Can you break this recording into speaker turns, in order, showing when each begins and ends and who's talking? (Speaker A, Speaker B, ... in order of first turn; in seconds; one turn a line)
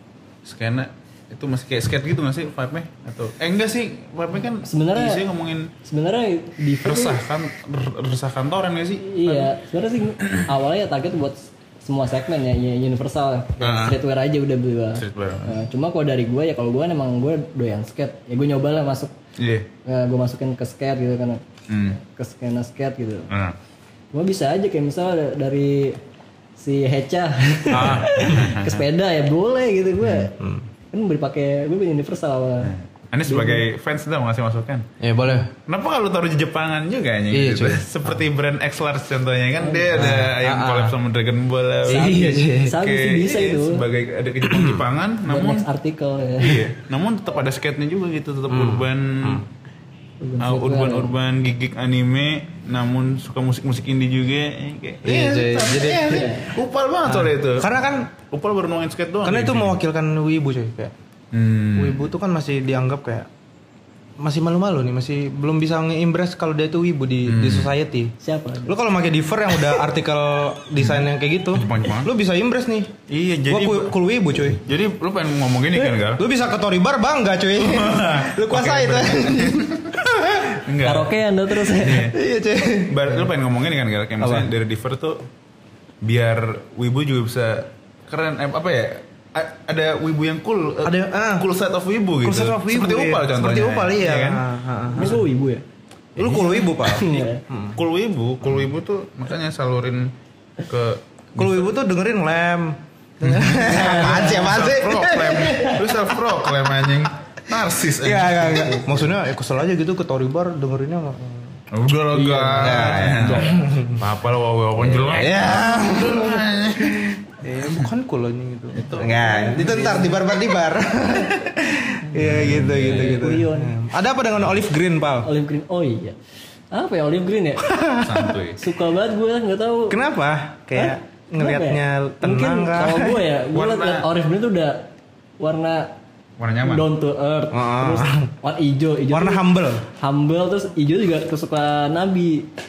Speaker A: 0.4-5.7
Speaker B: 4.6-5.2
Speaker B: 5.8-7.2
Speaker A: 6.8-9.5
Speaker B: 9.0-19.1
Speaker A: 13.6-14.0
Speaker A: 14.9-15.5
Speaker A: 19.4-19.7
Speaker B: 19.8-21.4
Speaker A: 21.7-22.0
Speaker B: 21.9-23.3
Speaker A: 23.3-23.6
Speaker B: 24.1-26.0
Speaker B: 26.6-30.4
Speaker C: 27.7-28.5
Speaker A: 27.8-28.8
Speaker C: 30.1-30.6
Speaker B: 30.9-32.7
Speaker A: 32.6-34.9
Speaker B: 33.2-33.6
Speaker C: 35.0-35.5
Speaker A: 35.6-45.7
Speaker C: 37.3-38.1
Speaker B: 39.6-40.1
Speaker C: 39.9-41.0
Speaker C: 41.9-42.8
Speaker B: 41.9-43.8
Speaker C: 44.4-44.8
Speaker B: 45.3-46.7
Speaker A: 46.4-49.4
Speaker C: 48.5-49.4
Speaker B: 50.2-51.1
Speaker A: 50.4-57.7
Speaker C: 55.0-56.4
Speaker B: 56.1-56.5
Speaker C: 57.0-58.1
Speaker A: 58.3-59.8
Speaker C: 59.2-60.9
Speaker A: 61.3-62.1
Speaker C: 61.8-63.3
Speaker C: 64.2-68.1
Speaker A: 67.2-67.7
Speaker B: 68.2-68.8
Speaker C: 68.7-74.6
Speaker A: 70.8-72.1
Speaker A: 73.1-74.0
Speaker A: 74.5-76.2
Speaker C: 75.8-80.6
Speaker A: 77.6-82.2
Speaker B: 80.8-82.1
Speaker C: 82.0-83.3
Speaker A: 82.8-85.3
Speaker C: 84.2-84.5
Speaker A: 86.0-94.4
Speaker C: 90.8-91.5
Speaker C: 92.2-95.2
Speaker B: 94.9-95.6
Speaker C: 96.2-97.8
Speaker A: 96.2-97.2
Speaker B: 96.8-97.4
Speaker A: 97.7-101.6
Speaker C: 101.3-106.5
Speaker A: 103.2-109.1
Speaker B: 103.6-104.4
Speaker C: 108.0-111.6
Speaker A: 111.7-117.8
Speaker B: 112.1-113.6
Speaker C: 112.6-114.0
Speaker C: 114.8-125.3
Speaker A: 118.7-120.0
Speaker B: 119.5-120.1
Speaker B: 122.1-123.8
Speaker A: 122.2-123.3
Speaker B: 125.2-126.2
Speaker B: 126.7-127.7
Speaker C: 127.6-128.3
Speaker A: 128.0-128.6
Speaker B: 128.6-130.0
Speaker C: 129.9-133.2
Speaker B: 130.7-135.9
Speaker A: 133.5-134.1
Speaker A: 136.4-136.9
Speaker B: 136.6-142.5
Speaker C: 137.5-138.3
Speaker C: 139.1-139.8